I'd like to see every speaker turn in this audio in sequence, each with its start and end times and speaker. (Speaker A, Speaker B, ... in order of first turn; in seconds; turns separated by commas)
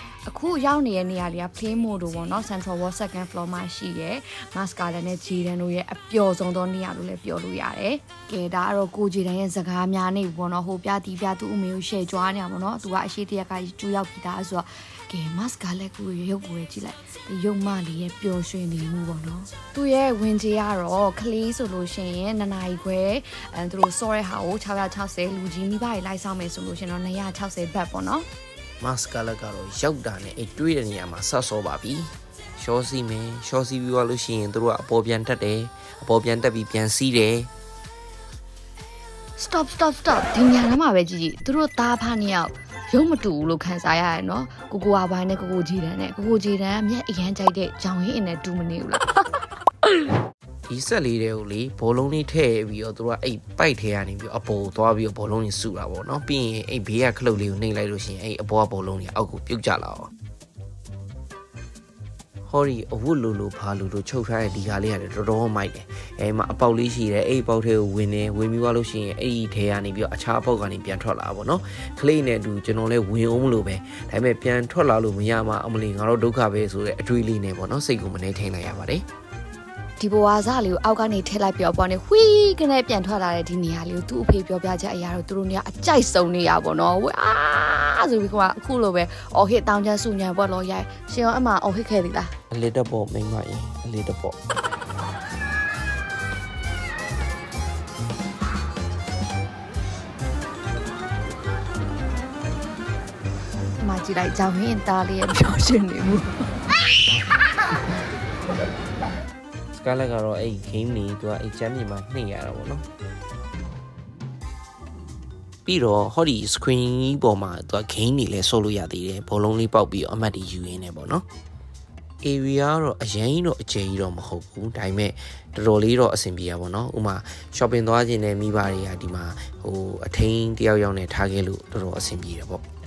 Speaker A: 0.3-28.2, Speaker B: 28.8-37.5, Speaker A: 39.4-49.4, Speaker B: 50.7-60.1, Speaker B: 62.5-79.0, Speaker A: 80.0-92.3, Speaker B: 92.5-94.4, Speaker A: 103.8-106.5, Speaker B: 109.7-112.8, Speaker B: 115.7-121.2, Speaker B: 122.2-132.6